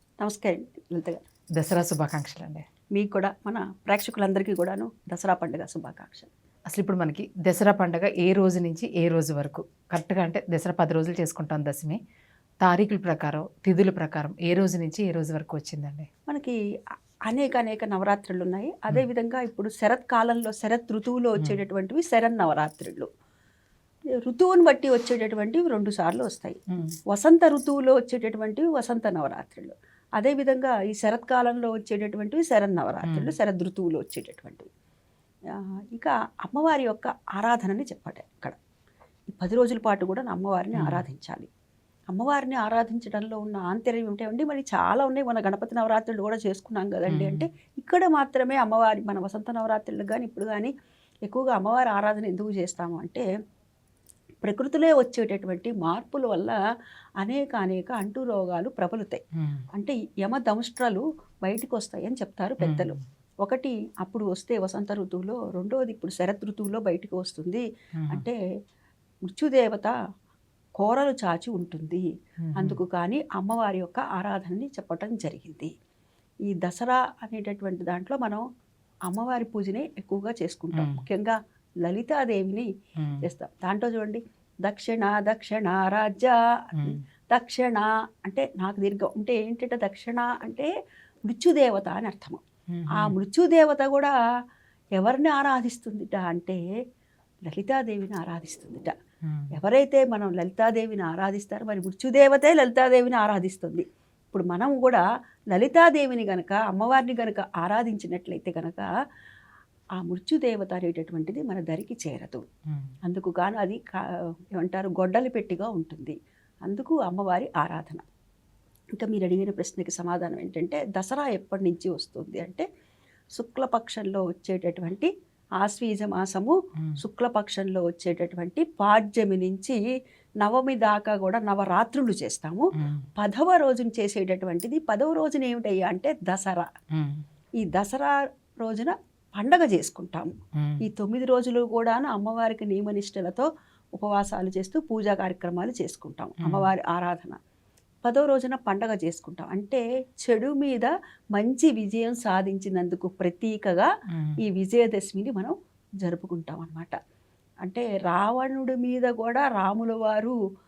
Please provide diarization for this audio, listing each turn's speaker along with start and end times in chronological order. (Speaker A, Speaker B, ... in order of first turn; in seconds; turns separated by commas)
Speaker A: 0.2-1.2, Speaker B: 1.6-2.6, Speaker A: 2.9-6.3, Speaker B: 6.7-12.0, Speaker B: 12.6-16.1, Speaker A: 16.3-16.6, Speaker A: 17.3-23.1, Speaker A: 24.2-26.6, Speaker A: 27.1-34.7, Speaker B: 33.0-33.3, Speaker A: 35.5-38.5, Speaker A: 39.3-41.5, Speaker B: 40.8-41.0, Speaker A: 42.1-50.7, Speaker B: 47.1-47.5, Speaker A: 51.2-53.2, Speaker A: 54.4-56.5, Speaker A: 57.2-59.2, Speaker B: 59.4-59.6, Speaker A: 59.7-68.4, Speaker B: 62.6-63.0, Speaker B: 68.0-68.2, Speaker A: 69.3-69.9, Speaker A: 70.8-72.0, Speaker B: 72.4-72.8, Speaker A: 72.5-75.7, Speaker A: 76.5-78.4, Speaker A: 79.1-82.7, Speaker B: 80.7-81.0, Speaker B: 83.0-83.2, Speaker A: 83.2-90.7, Speaker A: 91.3-92.4, Speaker B: 92.7-93.2, Speaker A: 92.9-94.1, Speaker A: 95.0-96.6, Speaker A: 97.5-98.9, Speaker B: 99.2-99.5, Speaker A: 99.5-108.8, Speaker A: 110.0-112.4, Speaker A: 113.0-113.8, Speaker A: 114.5-116.1, Speaker A: 116.7-118.0, Speaker A: 118.9-122.7, Speaker A: 123.3-129.8, Speaker A: 130.4-132.7, Speaker B: 132.8-133.1, Speaker A: 133.2-136.7, Speaker B: 136.9-137.2, Speaker A: 137.6-143.5, Speaker B: 140.6-140.8, Speaker A: 144.0-147.4, Speaker B: 146.4-146.7, Speaker A: 148.0-153.9, Speaker B: 154.1-154.4, Speaker A: 154.4-156.9, Speaker A: 157.6-160.3